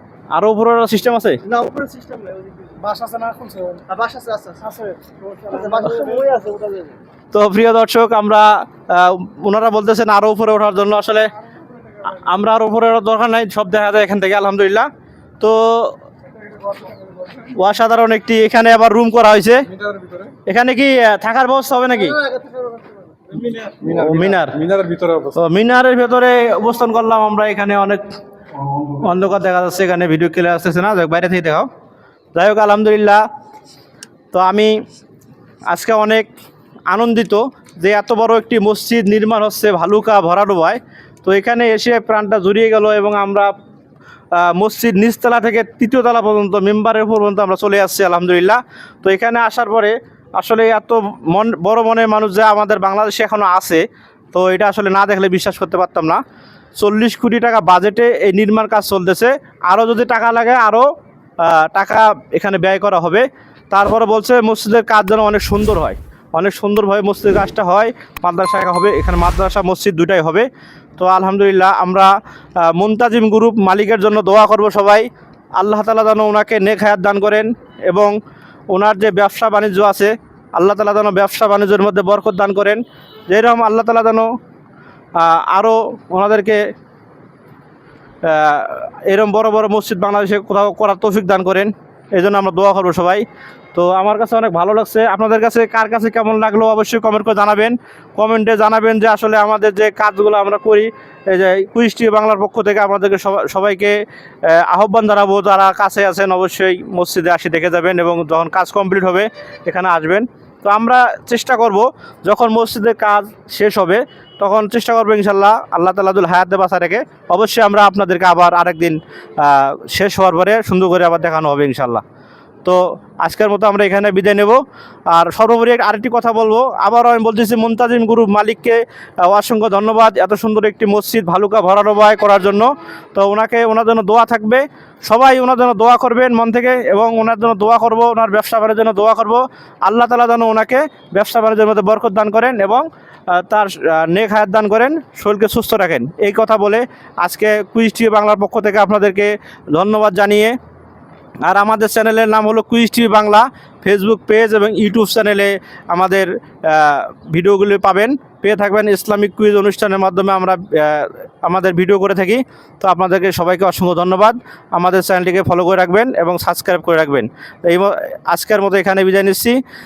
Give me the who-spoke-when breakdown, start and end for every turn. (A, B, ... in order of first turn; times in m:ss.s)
0:00.3-0:01.4 A
0:01.4-0:02.7 B
0:02.8-0:03.8 C
0:03.9-0:04.6 B
0:04.6-0:06.2 C
0:05.4-0:07.0 B
0:07.3-0:11.3 A
0:12.0-0:14.9 A
0:15.4-0:16.0 A
0:17.4-0:19.7 A
0:20.4-0:22.2 A
0:22.2-0:22.8 B
0:23.8-0:24.7 A
0:25.2-0:28.0 A
0:28.9-0:31.7 A
0:32.3-0:33.2 A
0:34.3-0:34.7 A
0:35.7-0:36.3 A
0:36.9-0:43.5 A
0:44.3-0:56.2 A
0:56.8-1:00.9 A
1:01.4-1:18.2 A
1:18.7-1:24.3 A
1:25.2-1:26.6 A
1:28.2-2:02.0 A
2:02.6-2:30.6 A
2:31.4-2:49.6 A